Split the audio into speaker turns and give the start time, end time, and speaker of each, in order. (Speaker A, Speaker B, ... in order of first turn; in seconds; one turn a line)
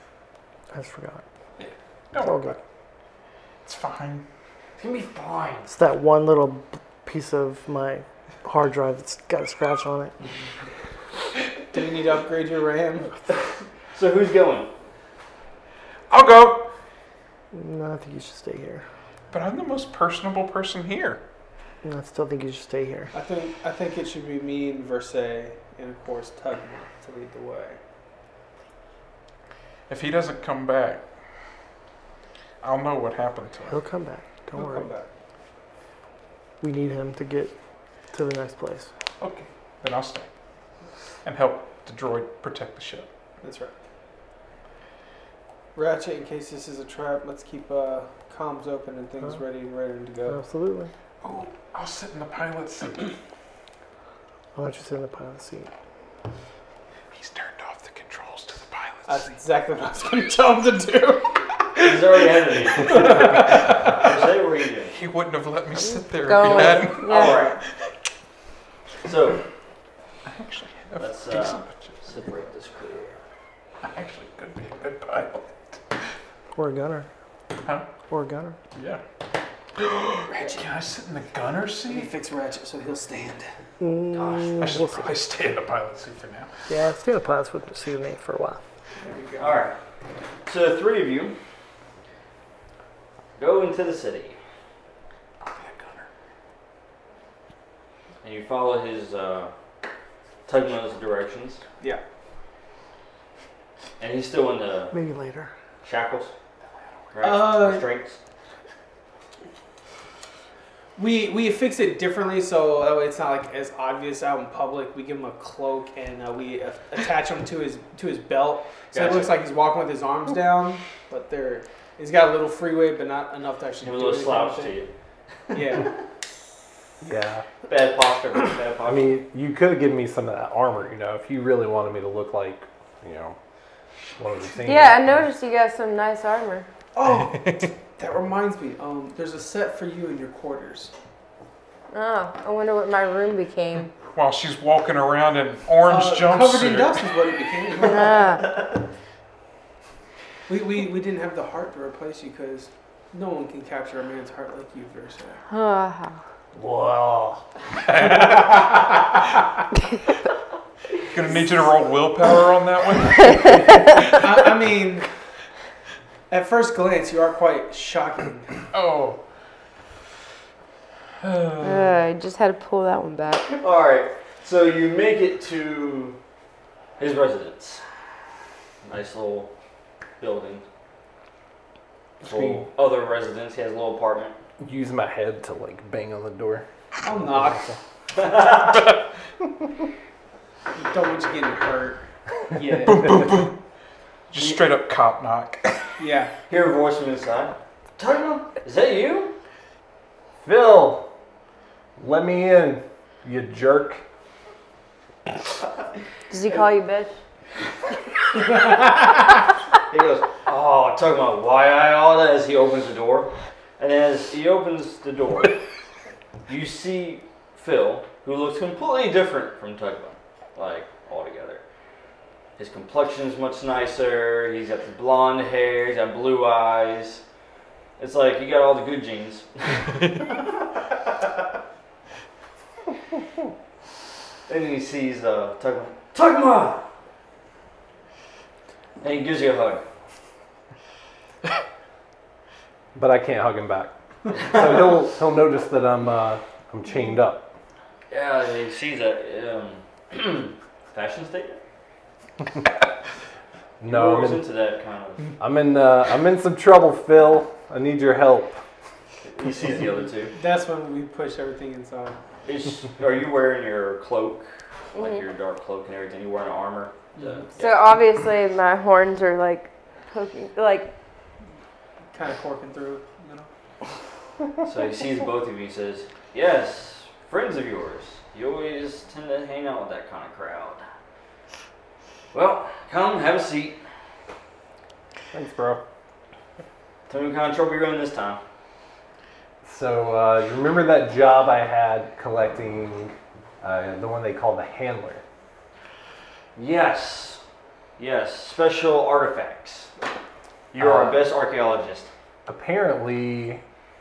Speaker A: 0.7-1.2
Speaker B: 1.6-2.6
Speaker A: 2.2-2.6
Speaker B: 3.6-4.3
Speaker C: 4.8-5.7
Speaker A: 5.7-10.1
Speaker D: 11.7-13.1
Speaker C: 13.9-14.7
Speaker B: 16.1-16.7
Speaker A: 17.5-18.8
Speaker B: 19.3-21.2
Speaker A: 21.8-23.1
Speaker D: 23.1-27.8
Speaker B: 29.9-31.1
Speaker B: 32.6-33.8
Speaker A: 33.7-34.9
Speaker D: 34.5-35.1
Speaker A: 36.6-37.5
Speaker A: 38.1-38.9
Speaker B: 39.2-40.3
Speaker B: 41.2-43.1
Speaker D: 43.4-43.7
Speaker D: 45.8-50.4
Speaker A: 50.3-50.9
Speaker B: 51.2-53.1
Speaker A: 54.5-55.7
Speaker B: 57.1-59.2
Speaker D: 59.1-61.4
Speaker C: 61.8-64.9
Speaker B: 63.4-64.1
Speaker B: 64.9-67.3
Speaker E: 66.2-67.4
Speaker C: 67.0-67.6
Speaker C: 69.0-69.4
Speaker B: 70.3-72.0
Speaker C: 71.0-73.2
Speaker B: 73.8-76.0
Speaker A: 76.5-77.1
Speaker A: 78.1-78.6
Speaker B: 78.8-79.0
Speaker B: 79.8-82.1
Speaker D: 81.9-83.5
Speaker A: 83.8-85.2
Speaker C: 84.1-84.6
Speaker B: 84.6-86.5
Speaker A: 86.7-88.6
Speaker D: 89.0-89.6
Speaker C: 89.4-89.8
Speaker C: 90.5-91.3
Speaker C: 93.4-94.4
Speaker B: 95.4-96.1
Speaker C: 98.2-99.5
Speaker C: 100.5-101.6
Speaker C: 104.0-104.9
Speaker A: 104.9-105.5
Speaker C: 105.8-106.3
Speaker C: 107.1-108.2
Speaker D: 107.2-107.9
Speaker D: 111.0-124.8
Speaker C: 118.9-119.4
Speaker C: 123.8-124.9
Speaker C: 125.5-125.9
Speaker D: 125.5-125.9
Speaker F: 127.0-127.5
Speaker C: 127.7-129.1
Speaker F: 128.8-133.4
Speaker F: 134.2-135.3
Speaker E: 134.6-136.7
Speaker D: 136.9-140.9
Speaker B: 137.3-137.7
Speaker E: 141.9-143.9
Speaker B: 144.1-147.1
Speaker D: 145.8-148.3
Speaker E: 147.9-148.4
Speaker D: 150.5-155.4
Speaker E: 155.5-156.2
Speaker F: 156.6-157.4
Speaker B: 157.9-158.8
Speaker B: 161.1-164.3
Speaker D: 164.1-165.1
Speaker D: 166.3-168.6
Speaker B: 168.7-169.2
Speaker B: 171.2-171.9
Speaker E: 171.6-173.5
Speaker C: 173.5-176.2
Speaker C: 177.0-177.8
Speaker C: 178.8-179.5
Speaker C: 180.2-180.6
Speaker F: 182.2-182.7
Speaker C: 182.2-184.4
Speaker F: 184.6-187.8
Speaker D: 187.0-187.7
Speaker C: 188.1-188.9
Speaker D: 190.8-193.2
Speaker B: 192.8-193.6
Speaker B: 194.3-195.9
Speaker D: 196.0-196.3
Speaker C: 196.5-199.3
Speaker F: 200.4-201.1
Speaker F: 202.0-204.0
Speaker E: 206.3-207.2
Speaker C: 209.9-215.6
Speaker C: 216.5-221.6
Speaker C: 222.6-227.2
Speaker C: 228.0-231.3
Speaker C: 234.5-236.8
Speaker C: 239.0-239.8
Speaker F: 242.9-247.5
Speaker C: 248.1-251.6
Speaker F: 253.8-254.4
Speaker C: 253.9-255.3
Speaker F: 255.4-258.6
Speaker C: 259.2-260.4
Speaker D: 260.3-262.2
Speaker C: 262.4-267.8
Speaker D: 267.1-267.5
Speaker E: 267.6-270.9
Speaker D: 272.1-273.5
Speaker C: 274.6-280.8
Speaker C: 282.3-283.8
Speaker F: 285.3-285.8
Speaker C: 287.1-288.4
Speaker F: 289.6-295.2
Speaker C: 296.6-297.4
Speaker C: 298.0-299.9
Speaker C: 300.7-302.1
Speaker F: 300.8-301.2
Speaker F: 302.5-303.6